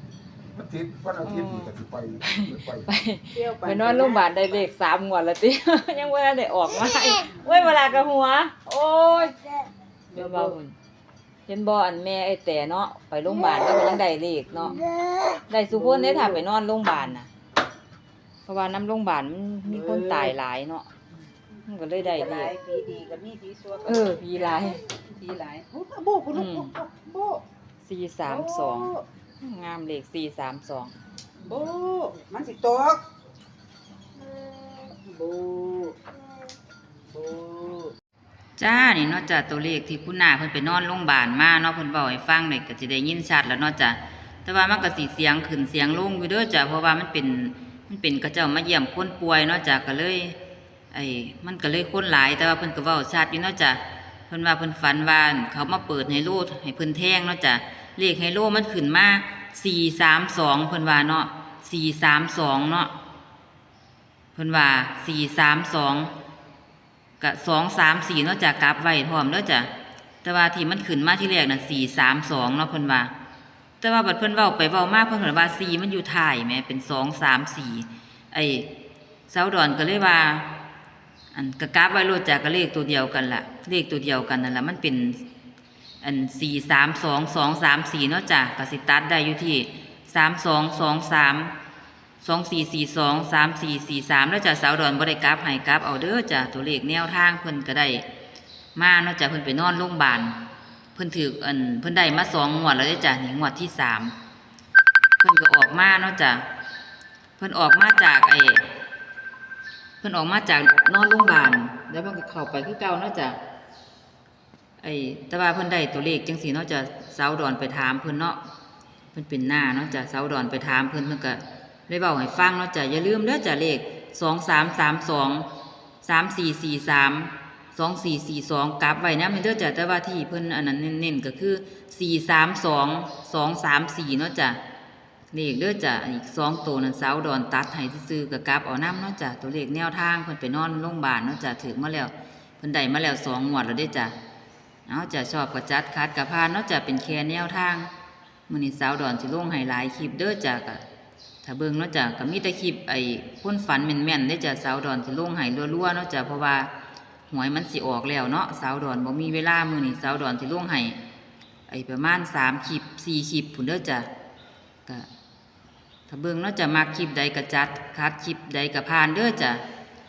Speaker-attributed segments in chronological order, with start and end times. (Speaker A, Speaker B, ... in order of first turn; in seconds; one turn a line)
Speaker A: 0.5-2.9
Speaker B: 1.2-9.3
Speaker C: 3.3-4.7
Speaker C: 10.1-10.5
Speaker B: 10.1-10.7
Speaker B: 11.5-14.8
Speaker C: 14.6-14.9
Speaker B: 15.5-17.3
Speaker C: 15.7-16.4
Speaker B: 18.5-20.9
Speaker C: 19.6-20.3
Speaker B: 21.7-22.5
Speaker C: 22.0-27.4
Speaker B: 23.8-24.8
Speaker B: 26.3-26.7
Speaker B: 27.8-30.9
Speaker C: 28.2-29.0
Speaker C: 31.5-33.0
Speaker C: 34.8-36.0
Speaker C: 37.0-37.9
Speaker B: 38.6-50.3
Speaker B: 50.9-62.9
Speaker B: 64.3-66.1
Speaker B: 67.2-69.7
Speaker B: 70.2-73.1
Speaker B: 73.8-78.7
Speaker B: 79.3-80.5
Speaker B: 81.3-85.2
Speaker B: 86.0-91.5
Speaker B: 92.2-98.0
Speaker B: 98.8-100.3
Speaker B: 101.0-104.1
Speaker B: 105.2-106.4
Speaker B: 107.4-108.6
Speaker B: 110.0-113.4
Speaker B: 114.8-118.4
Speaker B: 119.1-125.5
Speaker B: 126.0-134.6
Speaker B: 135.3-144.1
Speaker B: 144.9-147.9
Speaker B: 148.5-150.8
Speaker B: 151.4-156.7
Speaker B: 157.3-161.0
Speaker B: 161.7-164.1
Speaker B: 166.1-169.6